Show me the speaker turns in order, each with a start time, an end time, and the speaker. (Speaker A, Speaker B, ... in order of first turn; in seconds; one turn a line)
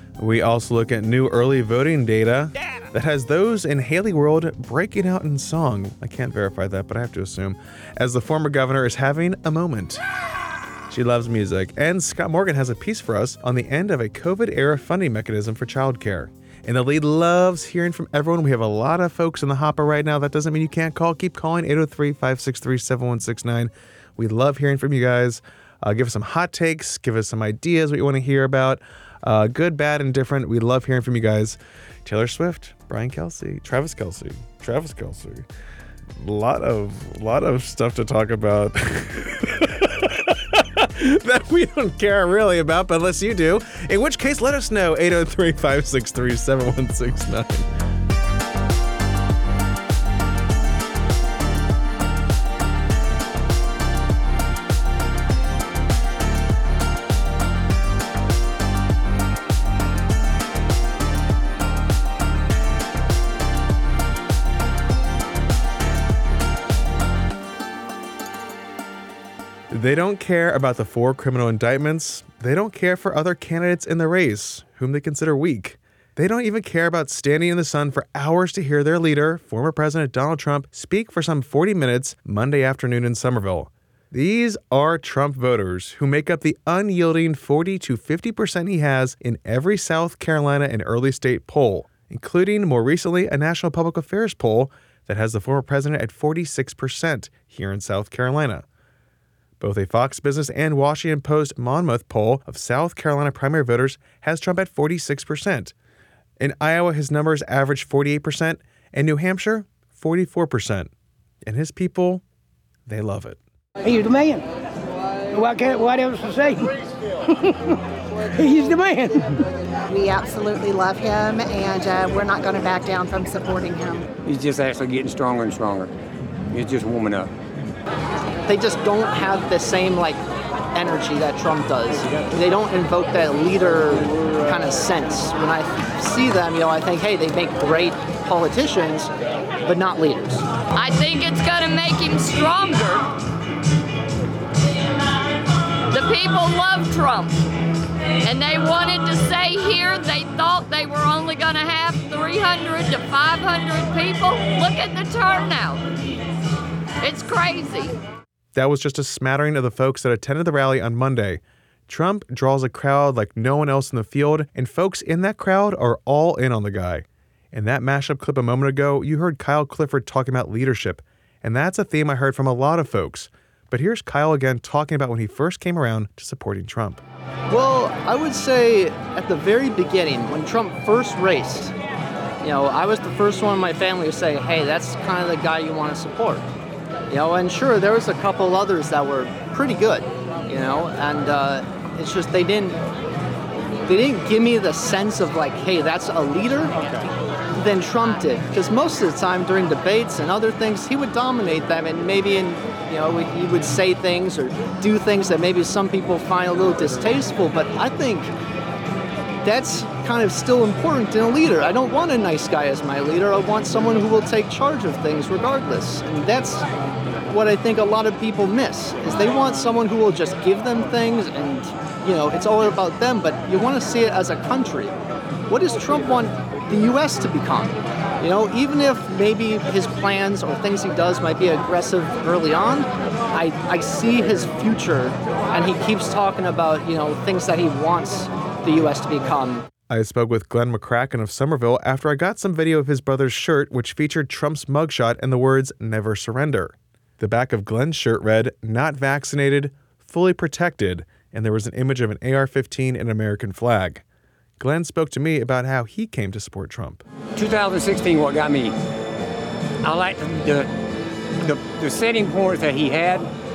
Speaker A: 0.2-10.0
Speaker A: 10.9-35.5
Speaker A: 36.2-47.7
Speaker A: 69.7-98.6
Speaker A: 99.6-105.7
Speaker A: 106.4-110.9
Speaker A: 111.4-112.2
Speaker A: 112.9-113.4
Speaker B: 113.8-114.4
Speaker B: 115.3-116.7
Speaker B: 117.3-117.7
Speaker B: 118.3-119.4
Speaker C: 119.9-124.0
Speaker D: 124.2-125.9
Speaker D: 126.5-127.3
Speaker E: 128.5-130.2
Speaker E: 130.7-139.1
Speaker E: 139.6-140.4
Speaker F: 140.7-143.1
Speaker F: 145.9-147.4
Speaker F: 148.2-155.8
Speaker F: 157.0-157.9
Speaker A: 158.5-177.0
Speaker E: 177.5-181.7
Speaker E: 182.4-186.5
Speaker E: 187.1-192.8
Speaker E: 193.9-208.3
Speaker E: 209.4-216.7
Speaker E: 217.3-225.0
Speaker E: 225.5-239.7
Speaker A: 239.9-254.0
Speaker A: 254.6-257.0
Speaker D: 257.3-258.7
Speaker D: 259.8-260.7
Speaker D: 261.4-263.3